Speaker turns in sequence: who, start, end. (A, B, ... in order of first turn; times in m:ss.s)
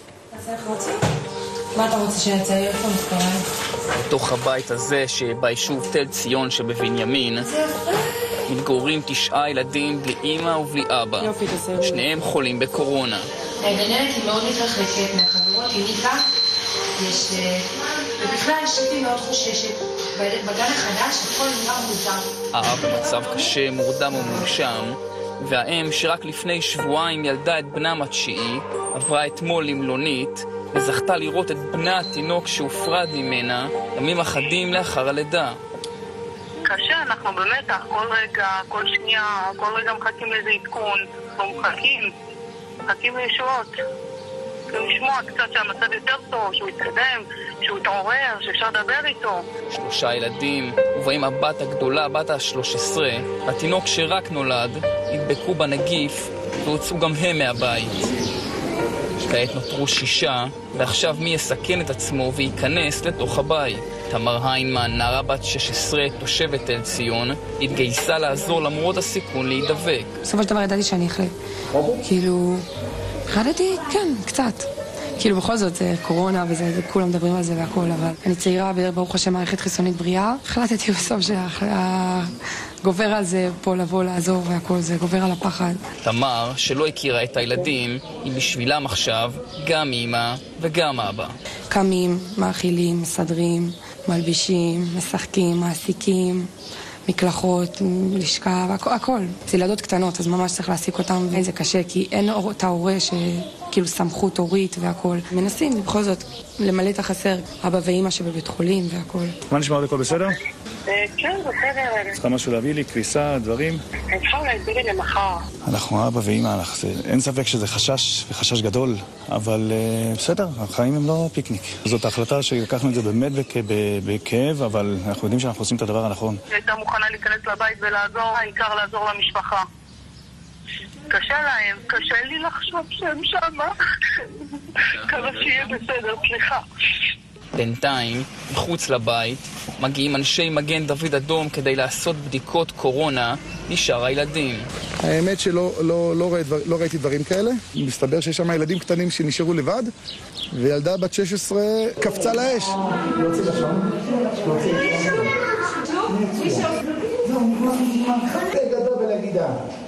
0:00.4-0:01.0 A
0:01.7-0:03.4 A
0:04.0-0:07.5 B
0:08.5-0:13.3 B
0:11.2-0:12.0 C
0:13.6-0:16.2 A
0:17.0-0:22.2 A
0:22.5-0:35.6 B
0:36.6-0:42.1 D
0:42.9-0:43.7 D
0:44.7-0:49.5 D
0:49.7-0:58.0 B
0:59.2-1:10.2 B
1:10.2-1:11.3 C
1:11.9-1:12.6 C
1:13.3-1:25.8 C
1:26.0-1:31.3 B
1:31.7-1:36.5 C
1:37.0-1:49.4 C
1:49.5-1:50.4 E
1:50.9-1:52.2 D
1:52.2-1:53.8 E
1:54.1-1:55.4 D
1:55.6-2:06.4 E
2:06.5-2:09.7 D
2:11.1-2:13.7 D
2:15.0-2:16.6 D
2:17.5-2:24.7 B
2:25.0-2:29.9 F
2:30.5-2:35.3 F
2:36.1-2:39.6 F